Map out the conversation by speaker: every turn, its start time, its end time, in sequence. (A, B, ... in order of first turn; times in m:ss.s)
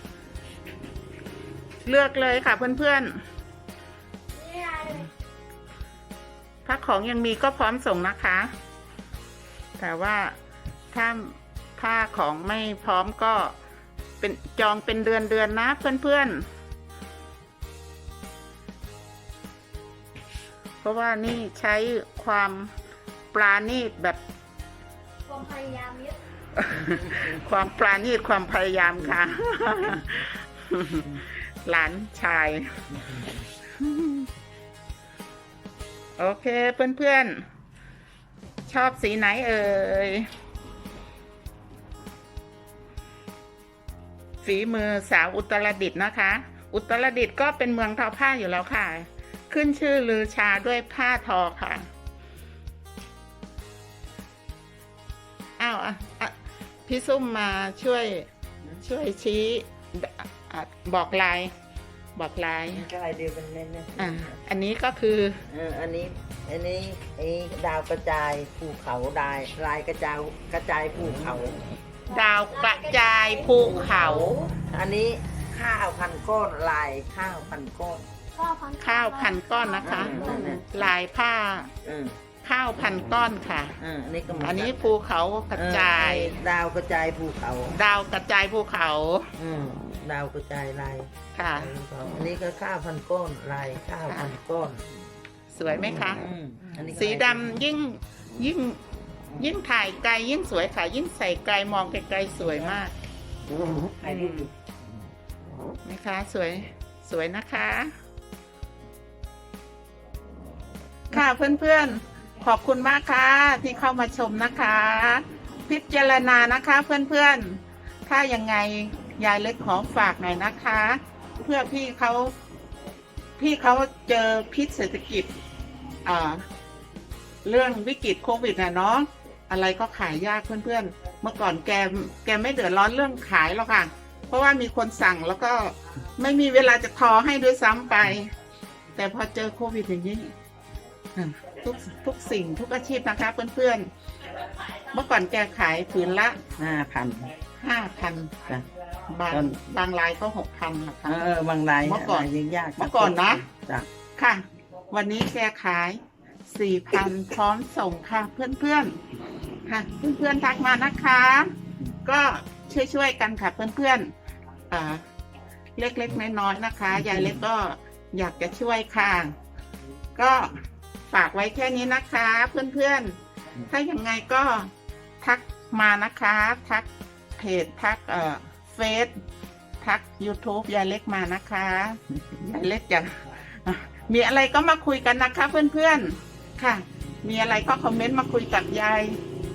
0:01.8-0:03.2 A
0:04.3-0:05.0 B
0:06.6-0:08.5 A
0:09.8-0:10.4 A
0:10.9-0:13.5 A
0:14.2-0:16.4 A
0:20.8-0:22.7 A
0:23.3-0:24.2 A
0:25.3-0:26.2 B
0:26.6-0:32.8 A
0:26.7-0:27.4 C
0:29.0-0:30.0 C
0:32.9-0:33.5 C
0:33.7-0:34.3 A
0:36.2-0:37.4 A
0:38.7-0:40.3 A
0:44.4-0:51.9 A
0:55.6-0:56.3 A
0:56.8-0:58.3 A
0:58.8-1:01.5 A
1:02.1-1:02.8 A
1:02.7-1:04.3 C
1:04.0-1:05.4 A
1:05.5-1:11.6 C
1:12.1-1:14.6 A
1:14.6-1:18.0 C
1:18.4-1:19.4 B
1:18.8-1:21.7 A
1:19.8-1:20.8 C
1:19.9-1:20.4 B
1:21.8-1:22.2 C
1:22.4-1:23.8 A
1:22.8-1:23.1 C
1:23.8-1:24.8 C
1:24.3-1:26.4 A
1:25.5-1:27.8 C
1:27.7-1:29.3 A
1:29.4-1:34.8 C
1:31.3-1:31.7 A
1:34.0-1:34.3 A
1:35.5-1:36.2 A
1:35.9-1:37.6 C
1:36.9-1:38.8 A
1:39.4-1:42.9 A
1:42.5-1:42.8 C
1:44.0-1:44.5 C
1:44.0-1:44.5 A
1:45.8-1:47.9 A
1:51.1-2:02.3 A
2:03.4-2:05.3 A
2:06.0-2:06.4 A
2:07.4-2:18.3 A
2:18.9-2:20.3 A
2:21.1-2:23.9 A
2:24.9-2:26.4 A
2:26.6-2:27.3 C
2:27.6-2:28.3 A
2:29.1-2:31.2 A
2:29.3-2:29.6 C
2:31.0-2:33.9 C
2:31.8-2:33.4 A
2:34.2-2:39.0 A
2:39.6-2:41.5 A
2:42.0-2:44.1 A
2:44.7-2:45.0 A
2:45.8-2:49.3 A
2:46.9-2:47.4 C
2:50.2-2:53.2 A
2:53.7-2:59.1 A
2:59.8-3:09.2 A